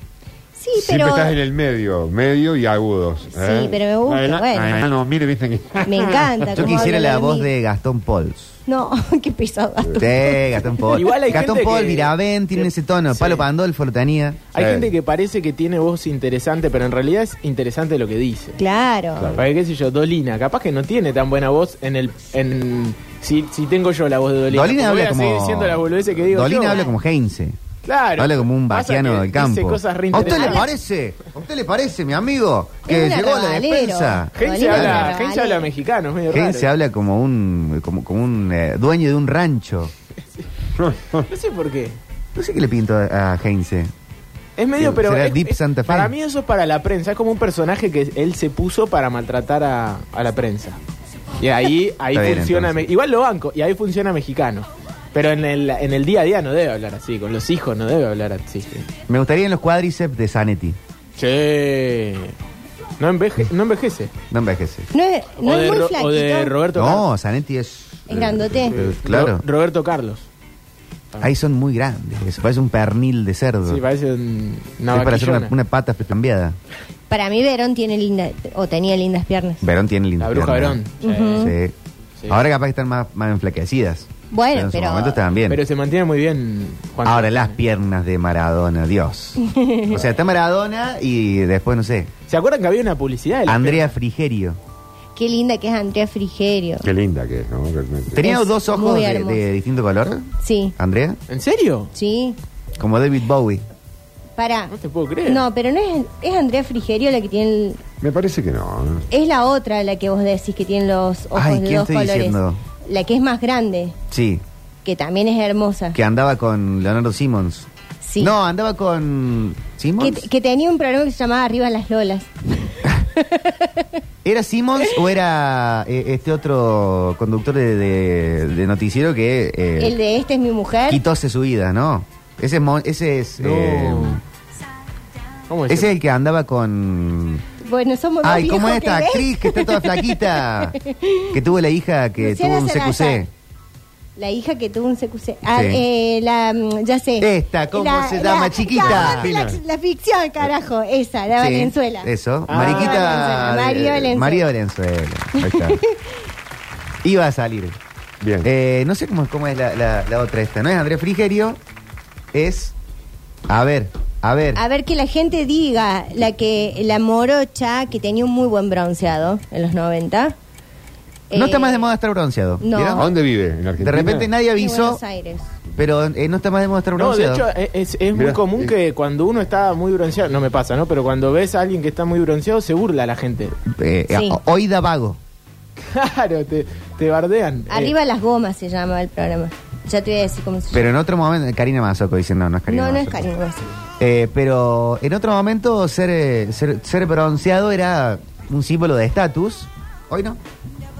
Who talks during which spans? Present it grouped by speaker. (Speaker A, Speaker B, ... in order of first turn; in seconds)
Speaker A: 0.6-1.4, 3.3-4.8, 5.8-7.5, 8.7-10.9, 18.6-19.4, 26.7-26.9, 30.1-30.7, 32.9-35.7, 64.9-66.6, 68.1-68.8, 77.1-79.6, 81.0-81.5, 84.3-85.2, 89.4-89.9, 95.2-96.8, 98.2-99.4, 100.4-100.7, 101.9-102.4, 104.4-104.7, 105.2-107.8, 109.1-113.9, 114.8-116.0, 118.0-118.3, 120.0-123.8, 129.8-131.0, 137.6-141.3, 142.2-143.3, 144.2-154.5, 155.4-156.0, 164.5-170.3, 171.3-171.9, 172.6-173.1, 174.5-175.5, 184.1-184.4, 187.7-190.9, 192.7-193.6
Speaker B: 0.8-6.6, 14.5-14.9, 19.2-19.4, 40.8-41.3, 96.8-98.2, 108.0-109.0, 148.8-149.6, 158.2-158.5, 172.9-174.3, 178.1-178.7
Speaker C: 6.5-8.6, 10.0-14.4, 24.5-27.6, 28.2-35.2, 36.3-39.9, 42.3-43.9, 44.8-46.1, 52.1-52.8, 59.1-60.8, 64.3-64.9, 66.7-69.4, 71.2-73.8, 74.9-76.5, 79.6-80.8, 81.3-81.7, 82.3-85.6, 87.0-92.1, 93.5-94.6, 98.1-101.2, 102.8-103.6, 111.3-112.6, 114.1-114.4, 115.9-117.7, 118.2-120.2, 124.2-129.9, 130.9-134.2, 135.7-137.4, 138.2-140.8, 141.3-143.3, 145.5-145.8, 147.2-149.3, 151.4-155.8, 157.0-157.8, 158.4-161.6, 162.3-162.7, 163.5-164.6, 171.3-173.1, 173.8-175.0, 175.8-177.5, 183.7-185.2, 190.7-193.2, 194.0-200.4
Speaker D: 10.9-13.4, 14.5-18.6, 19.3-26.8, 27.8-30.7, 34.3-36.7, 41.3-42.0, 44.6-50.8, 51.4-58.9, 61.2-62.4, 63.0-64.1, 65.4-67.1, 68.6-70.3, 73.7-75.5, 80.2-81.5, 85.5-87.6, 92.3-93.9, 101.3-101.9, 104.7-105.4, 133.4-134.2, 135.5-135.9, 152.5-153.4, 176.9-183.6, 185.9-187.9